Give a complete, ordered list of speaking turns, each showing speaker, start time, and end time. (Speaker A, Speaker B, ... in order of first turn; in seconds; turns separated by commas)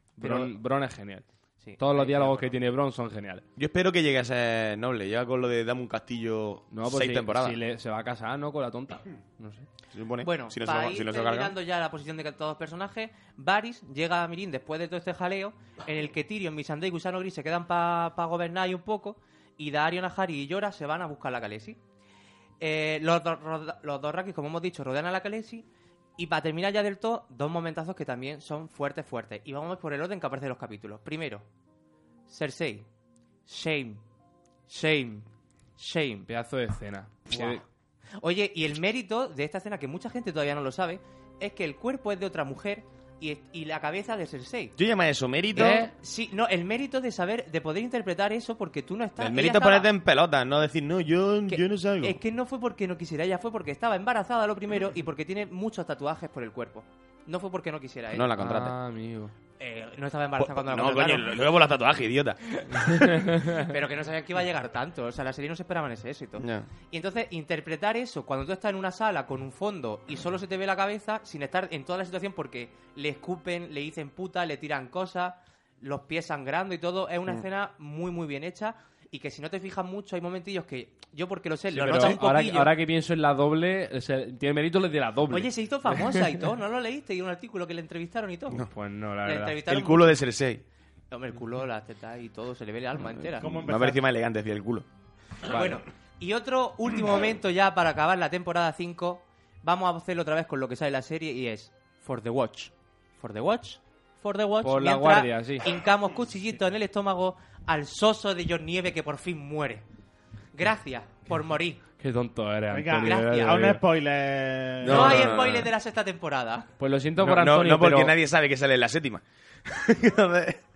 Speaker A: 0.2-1.3, Speaker B: 0.2-0.5, Speaker B: 1.6-2.5, Speaker A: 1.8-3.4, Speaker C: 3.6-7.6, Speaker A: 6.7-9.7, Speaker C: 9.9-11.6, Speaker B: 10.2-21.8, Speaker B: 22.6-25.7, Speaker B: 26.2-31.4, Speaker B: 32.3-32.9, Speaker B: 33.5-34.0, Speaker B: 34.7-35.3, Speaker B: 35.8-36.3, Speaker A: 36.3-37.6, Speaker B: 37.3-37.6, Speaker B: 38.2-44.7, Speaker C: 44.8-45.9, Speaker A: 45.6-45.9, Speaker B: 45.6-49.9, Speaker C: 49.2-52.2, Speaker B: 51.5-58.3, Speaker C: 58.1-58.8, Speaker A: 58.4-59.3, Speaker B: 59.6-61.4, Speaker C: 60.4-62.8, Speaker B: 62.7-82.8, Speaker C: 66.4-66.7, Speaker A: 81.7-85.5, Speaker B: 85.3-88.6, Speaker A: 88.7-89.6, Speaker B: 89.2-90.2, Speaker C: 89.7-90.6, Speaker B: 91.1-93.5, Speaker C: 93.0-94.8, Speaker D: 93.4-94.0, Speaker B: 95.5-109.8, Speaker A: 104.6-105.7, Speaker B: 110.5-111.8, Speaker A: 112.0-113.8, Speaker D: 112.7-115.2, Speaker B: 113.0-113.6, Speaker C: 114.8-115.7, Speaker B: 114.9-116.7, Speaker A: 116.8-118.1, Speaker C: 117.2-120.6